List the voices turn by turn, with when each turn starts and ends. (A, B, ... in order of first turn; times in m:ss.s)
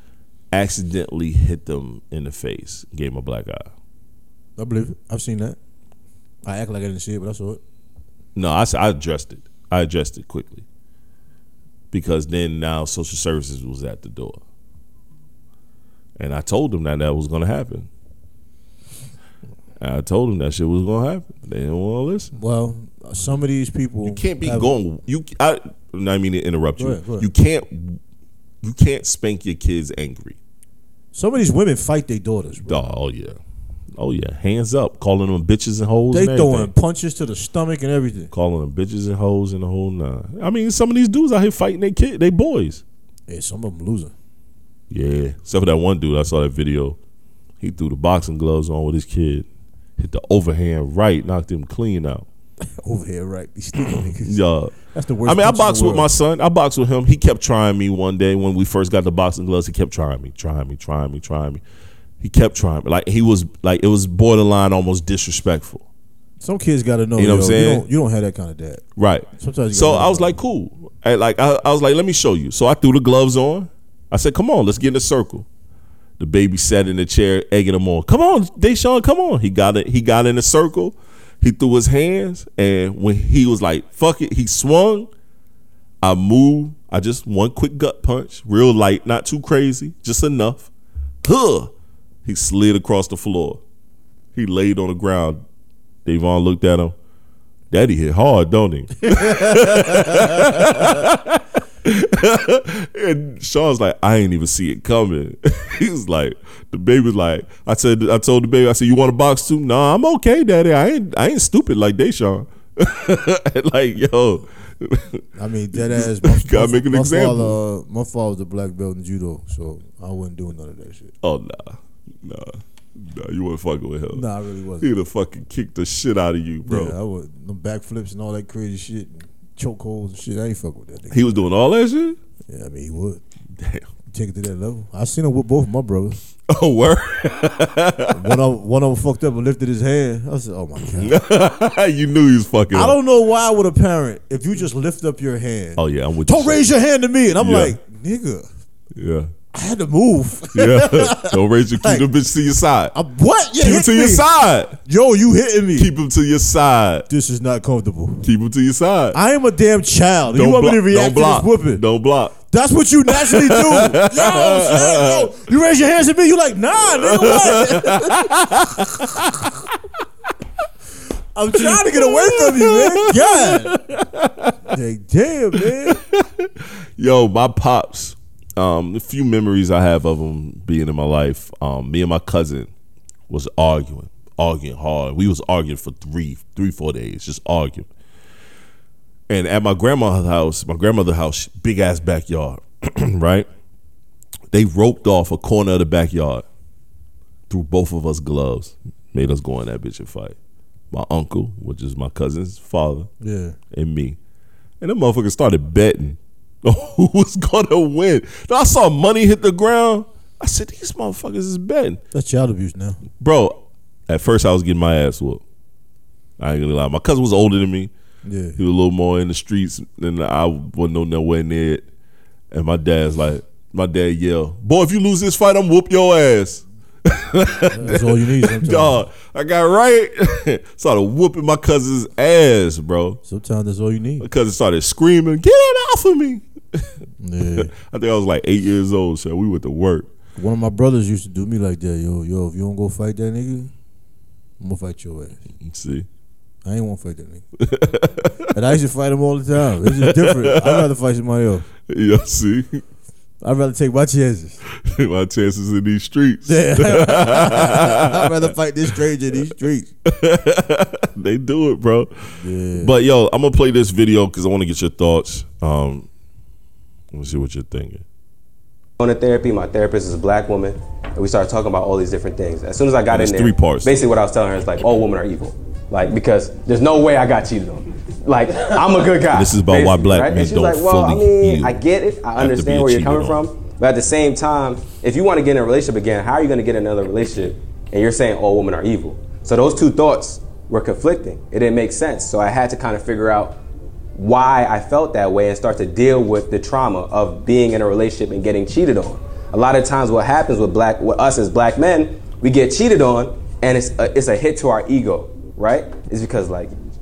0:00.5-0:03.7 A
0:04.6-0:05.6 B
0:06.4-0:07.6 B
0:08.4-0:10.6 A
0:11.9-0:14.4 A
0:16.2-0:17.9 A
0:19.8-0:22.3 A
0:22.4-0:24.8 B
0:24.0-0:28.0 A
0:26.8-0:27.3 B
0:28.6-0:30.4 A
0:31.1-0:32.8 B
0:32.6-0:33.4 A
0:33.9-0:36.7 A
0:36.1-0:38.3 B
0:38.3-0:42.8 A
0:43.3-0:44.1 B
0:44.9-0:47.0 A
0:47.6-0:49.5 A
0:50.0-0:52.3 A
0:52.8-0:56.1 B
0:53.8-1:01.6 A
1:02.2-1:05.8 A
1:06.4-1:08.8 B
1:07.2-1:07.9 A
1:09.0-1:15.5 A
1:09.4-1:10.4 B
1:16.2-1:25.1 A
1:26.0-1:30.7 A
1:31.2-1:31.7 A
1:32.2-1:33.6 A
1:34.4-1:35.4 A
1:36.0-1:37.0 A
1:37.7-1:57.6 A
1:39.2-1:40.8 B
1:55.4-2:01.1 B
2:01.2-2:04.3 A
2:04.1-2:04.9 B
2:04.8-2:07.0 A
2:06.7-2:11.4 B
2:11.1-2:12.2 A
2:12.5-2:13.2 B
2:13.6-2:13.9 A
2:14.1-2:16.2 B
2:16.5-2:18.4 A
2:18.1-2:21.2 B
2:20.9-2:23.0 A
2:22.7-2:28.5 B
2:25.8-2:26.6 A
2:27.4-2:27.8 A
2:29.0-2:29.3 A
2:29.5-2:32.1 B
2:30.5-2:33.0 A
2:32.9-2:34.3 B
2:33.6-2:34.8 A
2:34.8-2:35.9 B
2:35.8-2:37.1 A
2:37.1-2:38.3 B
2:38.2-2:39.2 A
2:39.1-2:41.8 B
2:40.3-2:42.4 A
2:42.5-2:49.5 B
2:43.1-2:45.3 A
2:46.8-2:49.5 A
2:51.4-2:53.8 B
2:51.5-2:54.8 A
2:54.7-2:56.0 B
2:55.5-3:02.7 A
3:03.3-3:07.9 A
3:09.3-3:13.5 A
3:14.5-3:16.4 A
3:17.5-3:20.4 A
3:20.9-3:23.1 A
3:23.2-3:23.6 B
3:23.7-3:24.2 A
3:24.8-3:32.0 A
3:32.1-3:33.0 B
3:33.2-3:35.4 A
3:36.4-3:37.9 A
3:38.2-3:38.6 B
3:38.6-3:41.9 A
3:42.5-3:53.2 A
3:47.7-3:49.0 B
3:53.3-3:54.3 B
3:54.2-3:56.9 A
3:57.2-3:57.7 B
3:57.6-4:00.1 A
4:00.4-4:03.7 B
4:04.6-4:05.4 B
4:05.6-4:06.1 A
4:06.6-4:07.4 B
4:07.6-4:08.5 A
4:08.5-4:11.7 B
4:09.8-4:10.8 A
4:11.9-4:12.8 A
4:13.4-4:14.6 B
4:14.7-4:18.5 A
4:16.4-4:19.9 B
4:20.1-4:22.1 A
4:22.4-4:22.9 B
4:22.8-4:26.1 A
4:27.1-4:28.0 A
4:29.0-4:53.6 C
4:33.1-4:33.9 A
4:39.3-4:41.8 A
4:42.4-4:43.4 A
4:54.2-5:06.8 C